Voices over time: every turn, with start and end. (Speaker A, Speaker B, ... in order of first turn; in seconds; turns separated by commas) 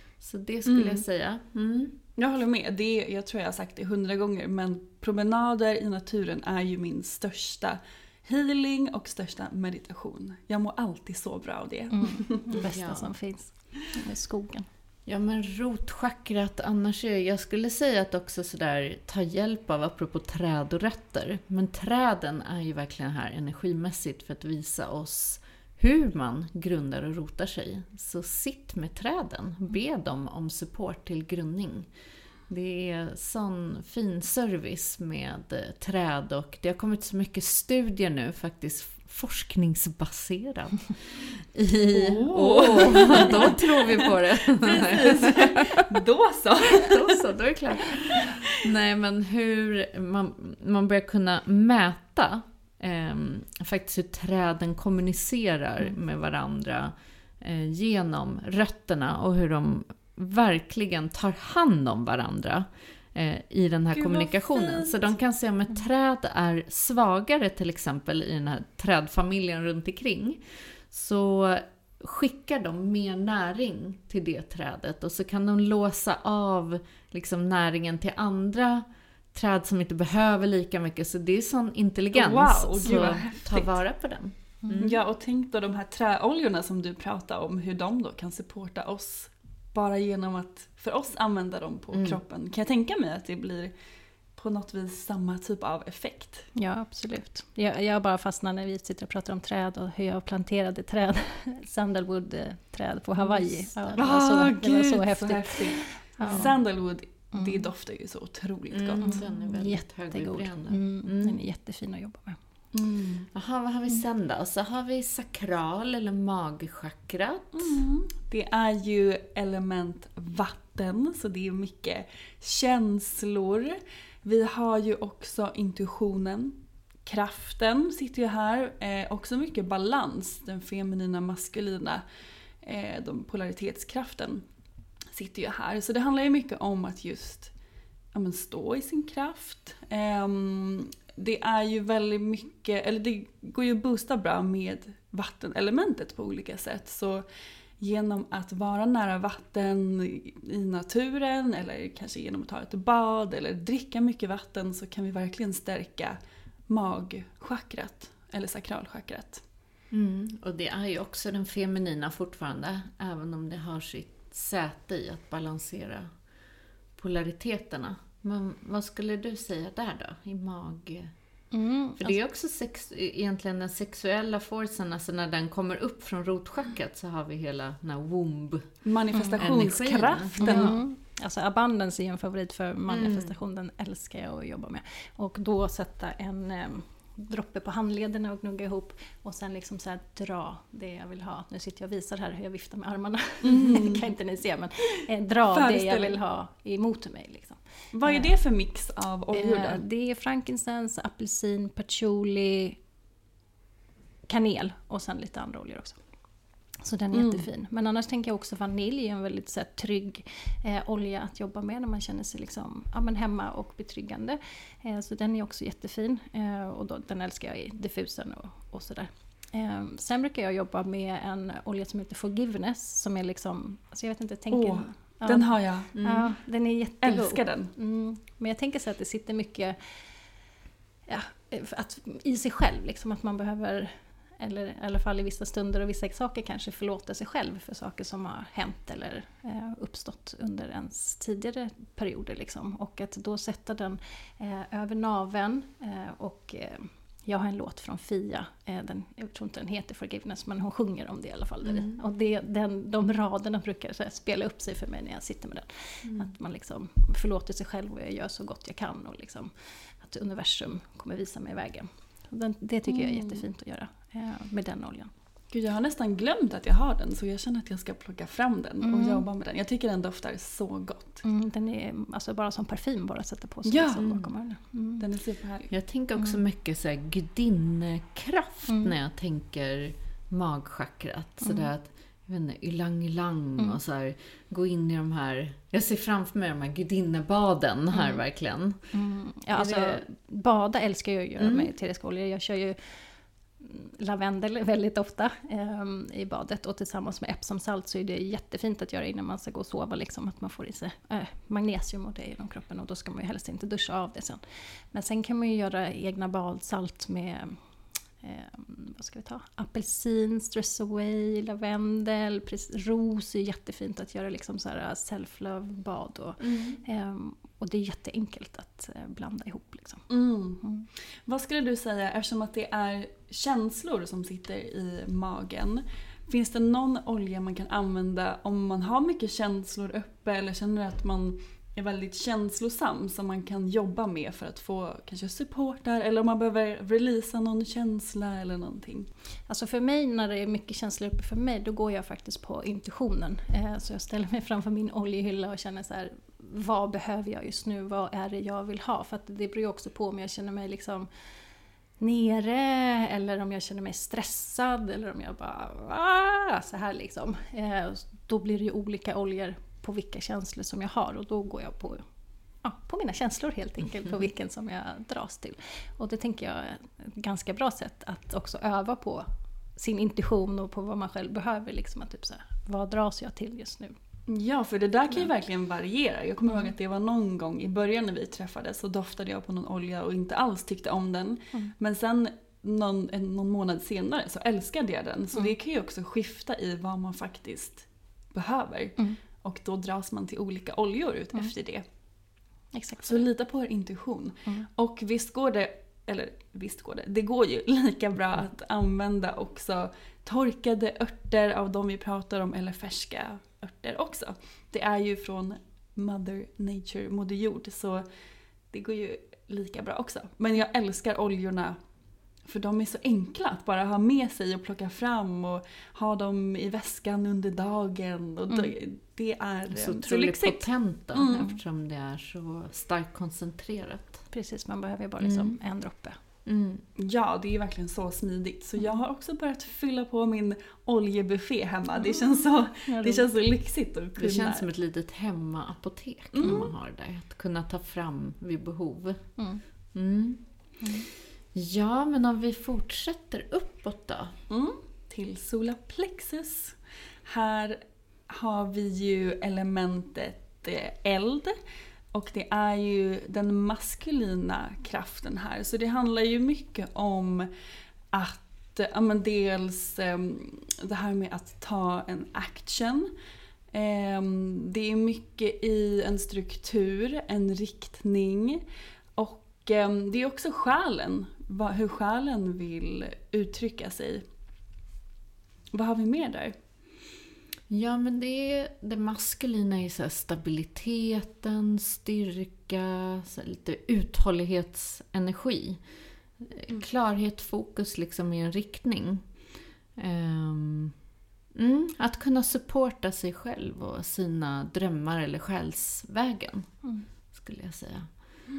Speaker A: 0.2-2.0, Speaker B: 0.7-1.1, Speaker B: 2.2-12.4, Speaker C: 11.9-14.7, Speaker A: 12.6-13.1, Speaker A: 15.1-31.9, Speaker A: 32.5-45.8, Speaker B: 41.9-44.0, Speaker B: 44.5-47.2, Speaker A: 46.8-85.0, Speaker B: 48.2-48.5, Speaker B: 63.9-65.1, Speaker B: 82.1-83.8, Speaker B: 84.8-93.7, Speaker A: 91.9-92.2, Speaker B: 94.4-96.5, Speaker C: 96.6-106.5, Speaker B: 104.0-109.2, Speaker A: 106.2-106.5, Speaker C: 107.3-107.7, Speaker A: 108.7-111.4, Speaker C: 109.0-112.4, Speaker B: 112.7-113.3, Speaker A: 113.3-117.8, Speaker B: 117.5-132.0, Speaker B: 132.6-134.4, Speaker B: 135.1-137.5, Speaker B: 138.1-147.2, Speaker B: 147.8-156.2, Speaker B: 156.7-159.4, Speaker A: 159.9-166.1, Speaker A: 167.0-171.1, Speaker C: 171.5-172.2, Speaker A: 172.0-178.8, Speaker B: 178.8-180.7, Speaker C: 179.2-179.4, Speaker A: 179.4-180.8, Speaker C: 180.4-198.3, Speaker A: 182.9-183.3, Speaker B: 193.4-194.0, Speaker B: 195.5-196.2, Speaker B: 197.9-199.8, Speaker C: 199.3-202.8, Speaker C: 204.3-206.0, Speaker C: 206.8-229.8, Speaker B: 207.1-207.5, Speaker B: 224.5-225.9, Speaker A: 225.9-226.4, Speaker B: 227.0-227.7, Speaker C: 231.1-265.1, Speaker A: 251.6-252.0, Speaker A: 256.0-256.3, Speaker B: 262.9-263.4, Speaker B: 265.5-271.2, Speaker C: 268.8-269.2, Speaker C: 271.2-275.0, Speaker B: 273.7-274.0, Speaker A: 274.0-274.3, Speaker B: 275.0-275.7, Speaker A: 275.7-288.8, Speaker C: 278.7-278.9, Speaker C: 287.9-288.2, Speaker C: 288.9-293.0, Speaker A: 289.5-290.1, Speaker A: 291.4-291.7, Speaker C: 293.6-304.4, Speaker C: 304.9-307.6, Speaker C: 308.2-320.1, Speaker A: 316.4-316.8, Speaker B: 320.1-320.6, Speaker C: 320.6-320.9, Speaker B: 321.2-339.1, Speaker C: 339.5-351.1, Speaker C: 352.0-362.0, Speaker C: 362.6-369.2, Speaker C: 369.8-373.9, Speaker B: 374.3-391.8, Speaker C: 392.7-393.2, Speaker B: 393.1-408.1, Speaker B: 408.7-411.8, Speaker B: 412.5-421.4, Speaker A: 419.7-424.2, Speaker C: 424.3-426.2, Speaker A: 425.2-425.6, Speaker A: 426.5-426.8, Speaker B: 427.0-434.7, Speaker C: 432.9-433.2, Speaker A: 434.2-439.2, Speaker B: 436.3-436.7, Speaker C: 439.4-439.6, Speaker A: 439.9-440.4, Speaker C: 440.8-441.1, Speaker A: 441.5-444.4, Speaker B: 444.5-451.5, Speaker B: 452.1-457.5, Speaker B: 458.1-463.1, Speaker B: 463.7-468.6, Speaker B: 469.2-474.2, Speaker B: 475.7-476.5, Speaker A: 477.7-485.8, Speaker A: 486.4-489.2, Speaker A: 490.0-490.9, Speaker A: 491.5-496.7, Speaker A: 497.3-498.1